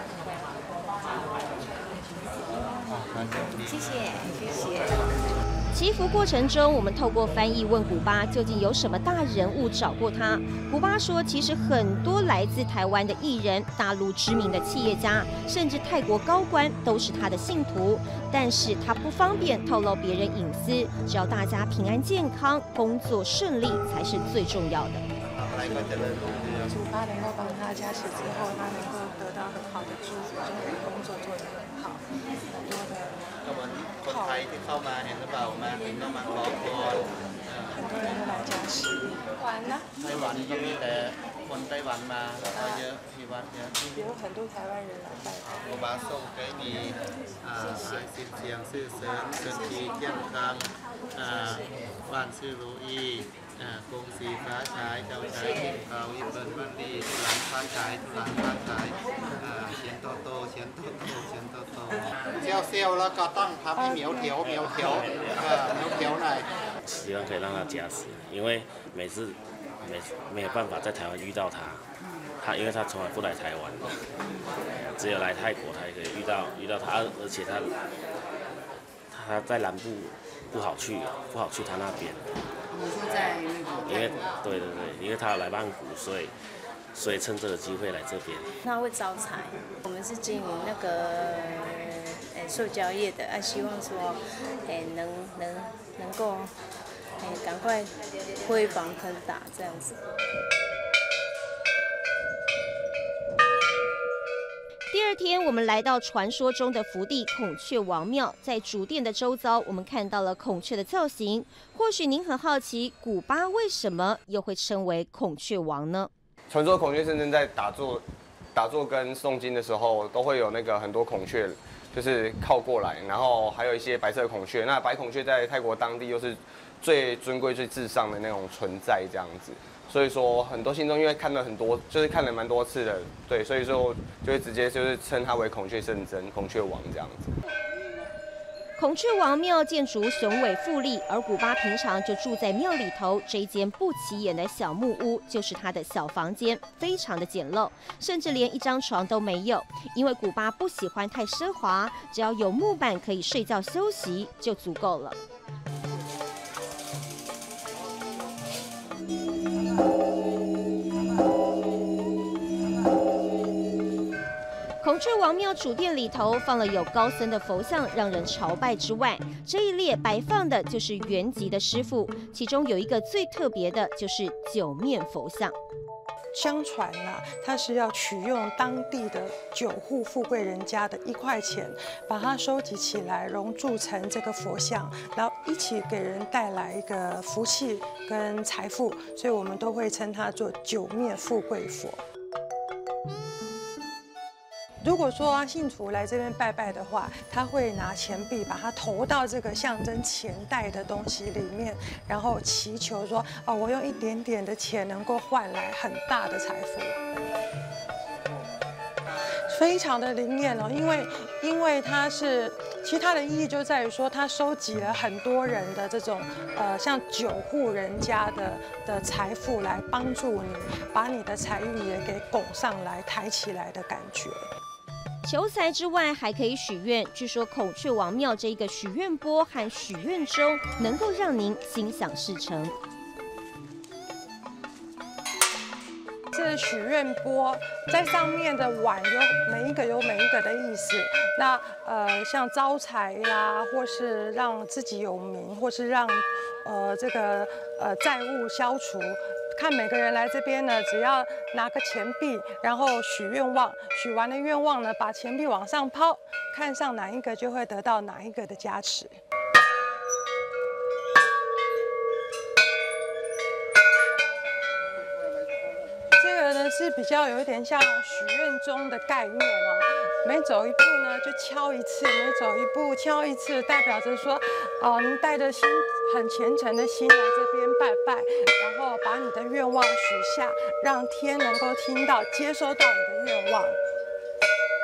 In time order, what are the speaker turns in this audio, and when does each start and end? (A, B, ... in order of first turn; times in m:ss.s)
0:02.8-0:04.0 A
0:04.1-0:04.8 B
0:05.7-0:25.0 C
0:25.3-0:26.8 A
0:26.7-0:33.3 D
0:33.4-0:37.8 A
0:34.1-0:34.4 D
0:37.7-0:39.9 D
0:40.0-0:43.8 A
0:43.9-0:45.5 D
0:45.4-1:06.5 A
1:06.8-1:11.8 E
1:12.4-1:14.0 E
1:15.0-1:17.7 E
1:19.1-1:22.3 E
1:23.8-1:26.3 E
1:26.9-1:28.5 E
1:28.6-1:36.5 B
1:37.2-1:37.9 B
1:38.4-1:40.0 B
1:44.9-1:56.1 C
1:56.5-1:58.0 F
1:58.5-2:17.3 F
2:18.8-2:35.2 C
2:44.8-2:55.6 C
2:56.3-3:12.0 D
3:14.8-3:27.0 D
3:29.5-3:44.5 D
3:45.2-3:52.8 C
3:56.3-4:19.2 D
4:26.2-4:43.8 D